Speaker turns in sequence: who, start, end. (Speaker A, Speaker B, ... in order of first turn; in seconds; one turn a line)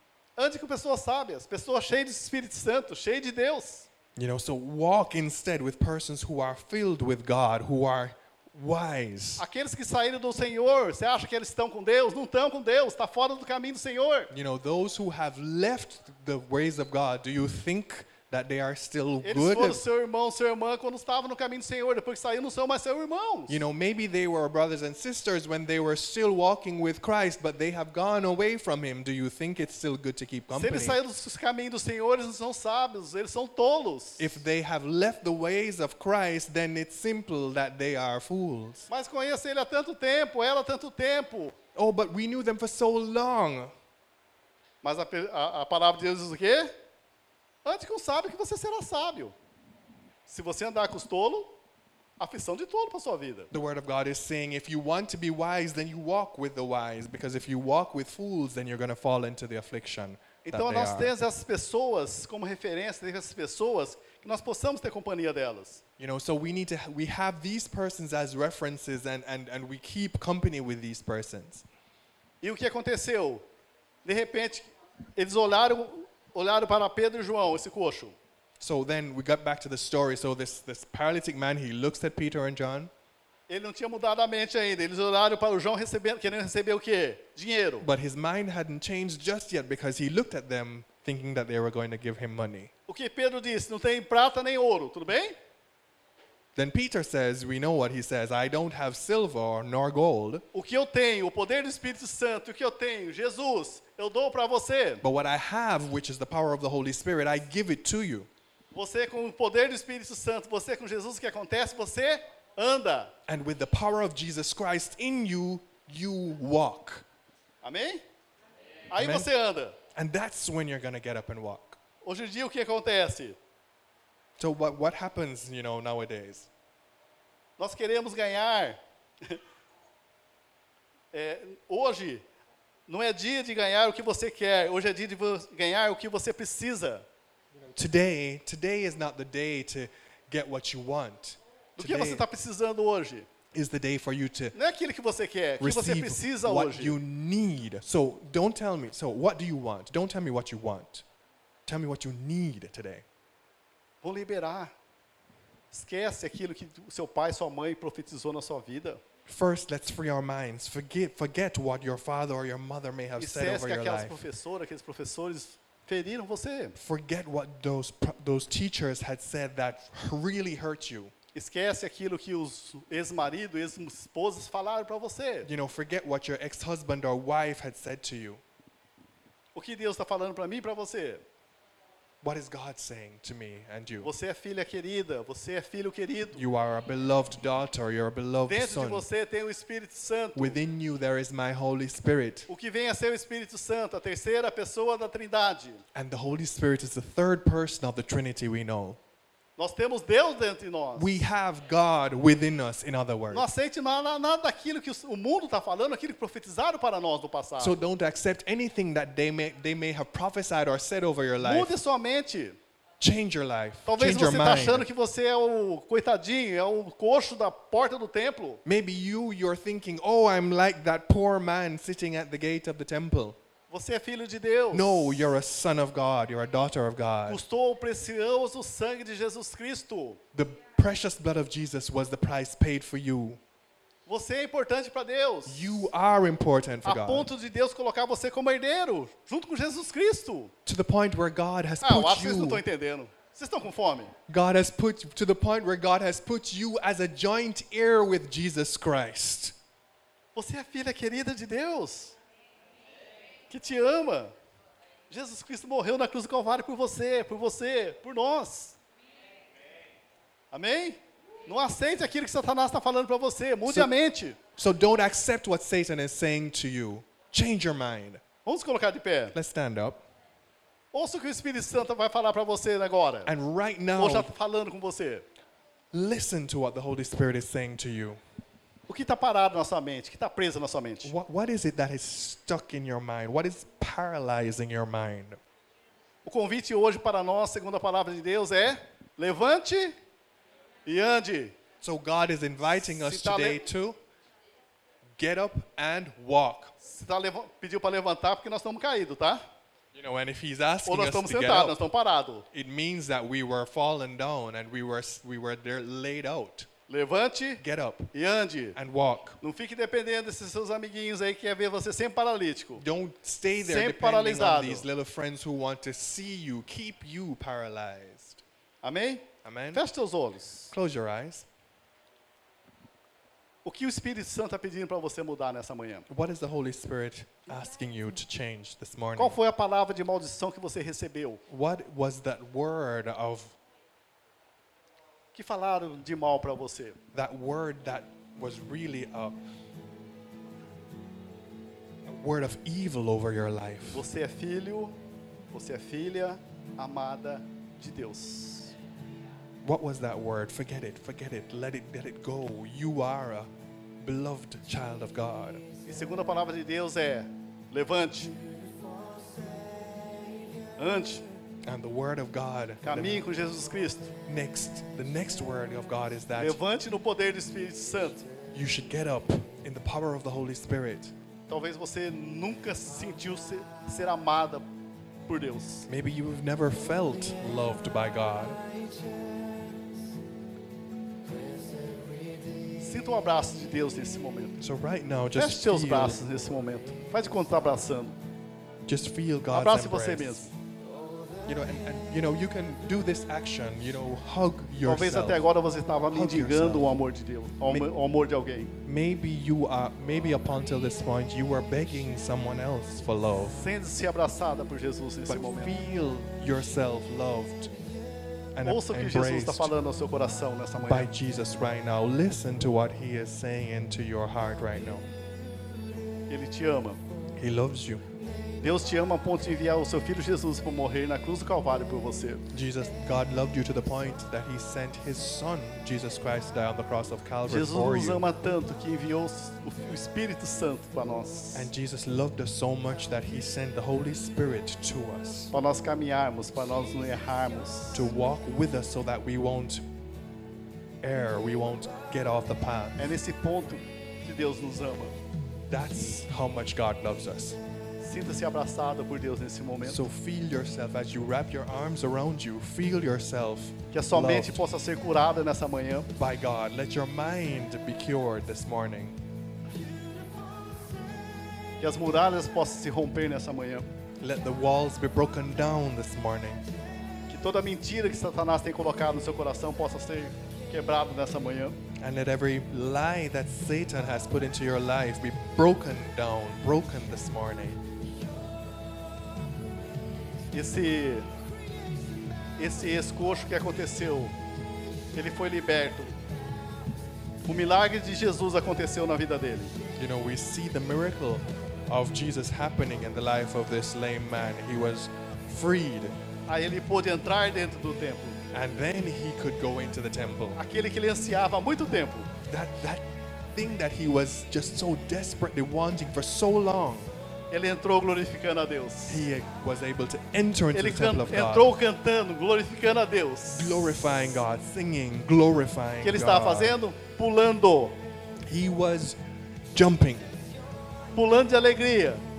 Speaker A: 0.4-3.9
Speaker B: 4.2-9.4
Speaker A: 9.4-14.3
Speaker B: 14.3-19.8
Speaker A: 19.2-23.6
Speaker B: 23.5-31.0
Speaker A: 30.5-34.4
Speaker B: 34.2-38.9
Speaker A: 38.9-41.5
Speaker B: 41.8-43.7
Speaker A: 44.8-46.7
Speaker A: 47.6-49.4
Speaker A: 50.3-51.6
Speaker A: 52.2-53.5
Speaker B: 53.5-61.1
Speaker A: 60.5-65.8
Speaker B: 66.0-71.7
Speaker A: 72.4-73.5
Speaker A: 74.0-78.2
Speaker B: 78.6-82.9
Speaker A: 83.5-87.9
Speaker B: 87.8-92.7
Speaker A: 92.9-95.4
Speaker B: 96.5-100.4
Speaker A: 100.5-105.0
Speaker B: 105.0-108.3
Speaker A: 108.7-113.1
Speaker B: 113.3-117.1
Speaker A: 117.6-118.0
Speaker A: 118.9-119.8
Speaker B: 119.0-119.3
Speaker B: 119.9-121.8
Speaker A: 122.0-123.4
Speaker B: 124.4-126.5
Speaker A: 127.6-129.4
Speaker A: 131.1-132.2
Speaker A: 132.9-137.1
Speaker B: 137.7-142.2
Speaker A: 141.8-143.3
Speaker B: 143.5-144.6
Speaker A: 144.6-147.0
Speaker B: 145.6-151.1
Speaker B: 151.7-153.1
Speaker A: 154.0-154.7
Speaker A: 155.7-159.0
Speaker B: 159.3-164.2
Speaker A: 163.2-166.8
Speaker B: 166.8-171.1
Speaker A: 171.3-175.5
Speaker B: 175.5-178.4
Speaker A: 179.6-181.2
Speaker B: 182.2-184.1
Speaker A: 184.0-186.4
Speaker B: 186.3-189.1
Speaker A: 188.5-190.6
Speaker B: 190.3-192.5
Speaker A: 192.5-195.8
Speaker B: 195.9-199.0
Speaker A: 199.6-201.1
Speaker B: 201.0-203.5
Speaker A: 203.3-207.8
Speaker B: 207.6-211.7
Speaker A: 211.4-212.6
Speaker B: 213.0-214.9
Speaker A: 213.9-218.6
Speaker B: 218.7-223.4
Speaker A: 223.7-225.2
Speaker B: 224.7-227.4
Speaker A: 227.3-230.2
Speaker B: 230.3-233.4
Speaker A: 234.1-235.8
Speaker B: 235.5-237.3
Speaker A: 236.8-240.5
Speaker B: 240.7-242.6
Speaker A: 241.8-244.2
Speaker B: 244.3-249.6
Speaker A: 250.3-252.2
Speaker A: 253.5-254.3
Speaker A: 255.1-258.8
Speaker A: 260.5-264.4
Speaker B: 264.6-268.2
Speaker A: 268.5-269.4
Speaker B: 269.3-270.0
Speaker A: 270.9-273.3
Speaker B: 273.3-274.3
Speaker A: 274.0-275.3
Speaker B: 275.9-278.2
Speaker A: 278.9-281.1
Speaker B: 281.0-285.4
Speaker A: 286.2-289.9
Speaker A: 290.9-291.6
Speaker B: 291.8-294.0
Speaker A: 292.7-293.6
Speaker B: 295.2-296.7
Speaker A: 296.8-299.4
Speaker B: 299.9-301.8
Speaker A: 300.9-302.5
Speaker B: 302.5-306.7
Speaker A: 306.9-307.6
Speaker B: 307.6-308.1
Speaker A: 308.1-308.8
Speaker B: 308.8-309.4
Speaker A: 309.4-312.8
Speaker B: 312.8-318.4
Speaker A: 313.6-314.9
Speaker A: 318.8-320.7
Speaker B: 319.4-319.9
Speaker B: 320.7-321.5
Speaker A: 323.6-326.1
Speaker B: 326.1-329.4
Speaker A: 329.2-331.4
Speaker B: 331.5-333.6
Speaker A: 335.3-337.0
Speaker B: 337.1-339.4
Speaker B: 342.1-344.1
Speaker A: 343.9-345.0
Speaker A: 345.5-348.8
Speaker B: 349.6-353.5
Speaker B: 354.0-355.6
Speaker A: 355.9-358.3
Speaker A: 360.8-361.2
Speaker B: 361.6-363.3
Speaker A: 362.8-364.1
Speaker B: 364.3-366.6
Speaker A: 366.4-368.3
Speaker B: 368.5-371.1
Speaker A: 371.5-374.7
Speaker A: 375.3-375.9
Speaker B: 375.9-378.6
Speaker A: 382.8-384.6
Speaker B: 384.6-386.2
Speaker A: 385.4-388.2
Speaker B: 388.9-390.5
Speaker A: 389.5-390.5
Speaker B: 391.5-395.4
Speaker A: 394.9-398.7
Speaker B: 396.1-396.9
Speaker B: 398.9-403.6
Speaker A: 403.6-405.7
Speaker B: 405.3-407.7
Speaker B: 408.6-409.7
Speaker A: 408.6-411.1
Speaker B: 410.9-415.1
Speaker A: 416.3-417.0
Speaker B: 417.4-418.0
Speaker A: 418.6-422.5
Speaker B: 422.5-428.2
Speaker A: 427.5-431.7
Speaker B: 431.6-435.5
Speaker A: 435.5-438.1
Speaker B: 437.9-439.9
Speaker B: 441.0-443.1
Speaker A: 443.0-445.1
Speaker B: 445.7-447.6
Speaker A: 448.0-450.0
Speaker B: 449.8-454.6
Speaker A: 453.9-456.1
Speaker B: 456.2-459.2
Speaker A: 461.8-463.9
Speaker B: 464.2-466.6
Speaker A: 467.3-471.8
Speaker B: 472.0-477.8
Speaker A: 480.5-481.3
Speaker A: 482.6-484.4
Speaker A: 485.1-486.1
Speaker A: 487.5-489.7
Speaker B: 490.0-496.1
Speaker A: 496.5-498.4
Speaker B: 498.5-500.6
Speaker A: 500.6-502.3
Speaker B: 502.5-507.1
Speaker A: 507.5-509.3
Speaker B: 509.1-511.7
Speaker A: 510.7-513.9
Speaker B: 513.5-516.8
Speaker A: 516.0-518.0
Speaker B: 518.5-519.2
Speaker B: 519.7-520.4
Speaker A: 521.1-522.2